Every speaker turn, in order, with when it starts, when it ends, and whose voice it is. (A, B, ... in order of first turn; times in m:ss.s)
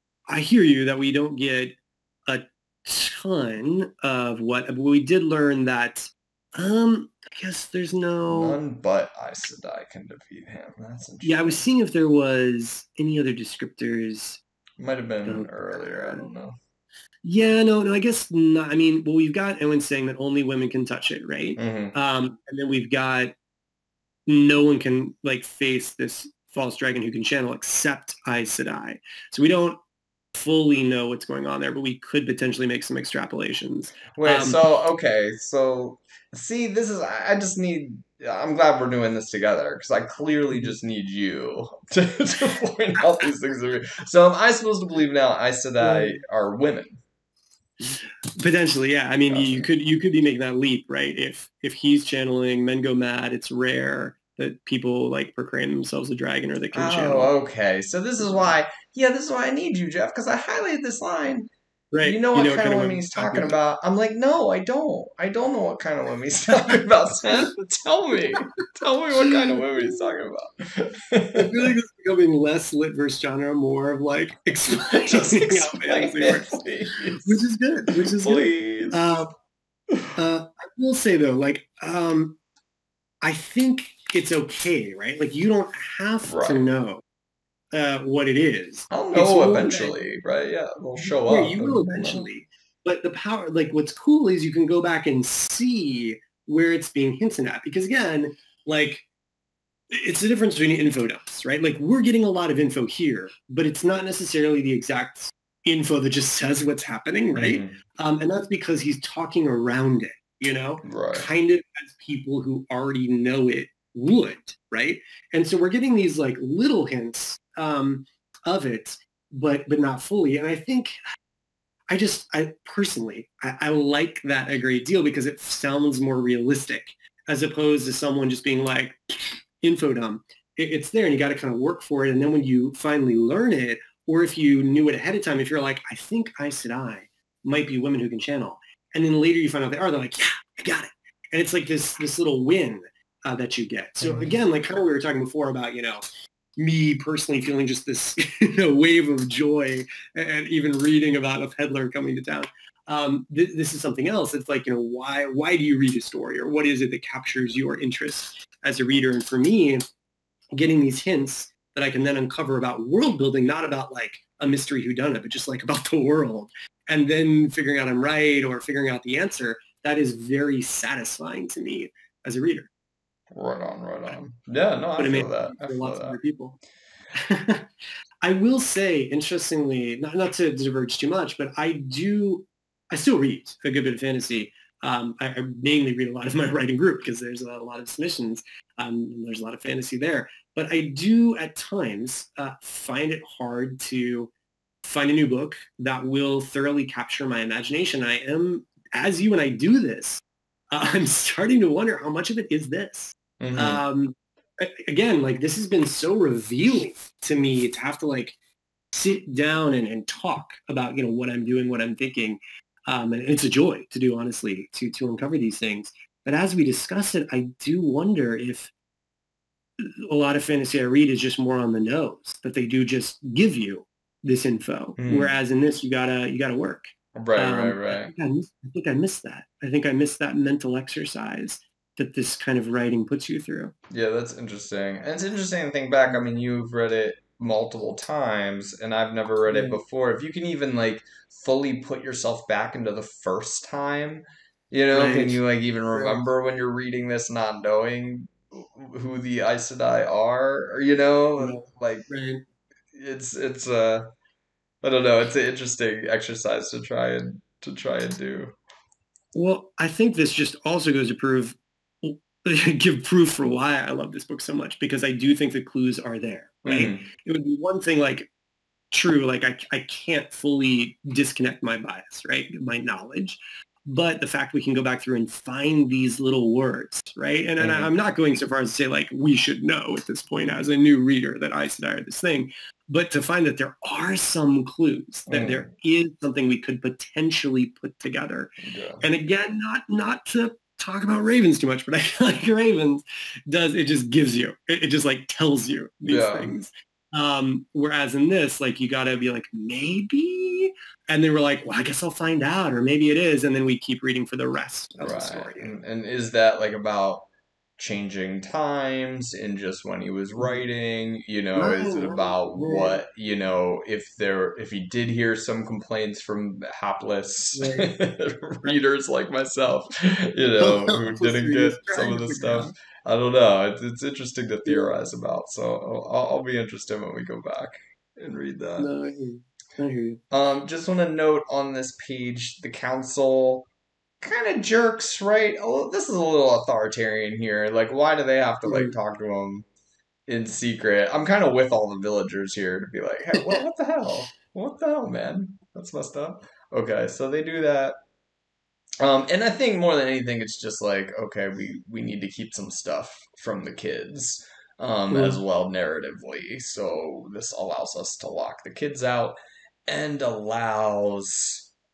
0:00.3-0:08.6 A
0:08.2-0:11.6 B
0:11.2-0:14.4 A
0:14.8-0:16.6 B
0:15.2-0:16.3 A
0:17.2-0:23.4 A
0:21.6-0:21.9 B
0:24.3-0:29.8 A
0:30.3-0:34.6 A
0:34.1-0:47.0 B
0:45.8-0:46.2 A
0:47.8-0:57.3 A
0:49.2-0:49.7 B
0:56.7-1:01.5 B
0:58.2-0:58.5 A
1:01.9-1:03.6 A
1:02.0-1:11.7 B
1:09.2-1:10.1 A
1:11.3-1:16.6 A
1:14.9-1:19.0 B
1:17.2-1:19.3 A
1:19.9-1:20.2 B
1:20.2-1:22.4 A
1:23.2-1:27.0 A
1:26.3-1:26.7 B
1:27.7-1:29.9 A
1:28.9-1:32.2 B
1:31.0-1:39.0 A
1:39.9-2:01.0 A
1:47.4-1:47.7 B
1:50.8-1:51.3 B
2:01.9-2:26.0 A
2:24.0-2:24.3 B
2:26.6-2:39.8 A
2:40.5-2:52.7 A
2:53.3-2:56.2 B
2:55.0-2:56.6 A
2:57.1-2:57.7 A
2:58.2-3:14.3 A
3:14.8-3:28.4 A
3:23.4-3:23.8 B
3:28.9-3:38.7 A
3:39.8-3:53.7 A
3:45.0-3:45.3 B
3:47.1-3:48.1 B
3:53.9-4:12.1 B
3:59.5-3:59.8 A
4:04.9-4:05.4 A
4:05.9-4:06.2 A
4:11.4-4:12.4 A
4:12.9-4:14.1 B
4:14.8-4:18.5 B
4:19.3-4:28.3 A
4:26.6-4:27.0 B
4:28.9-4:48.5 A
4:37.6-4:37.9 B
4:45.3-4:45.7 B
4:48.6-4:49.0 B
4:49.0-5:05.7 A
4:56.0-4:56.5 B
5:05.0-5:07.2 B
5:07.8-5:28.9 B
5:11.6-5:13.0 A
5:17.5-5:17.9 A
5:20.6-5:22.7 A
5:24.6-5:24.9 A
5:28.8-5:30.2 A
5:30.3-5:33.7 B
5:34.2-5:39.6 B
5:38.6-5:38.9 A
5:40.3-5:48.0 B
5:49.0-6:01.6 B
5:55.1-5:55.4 A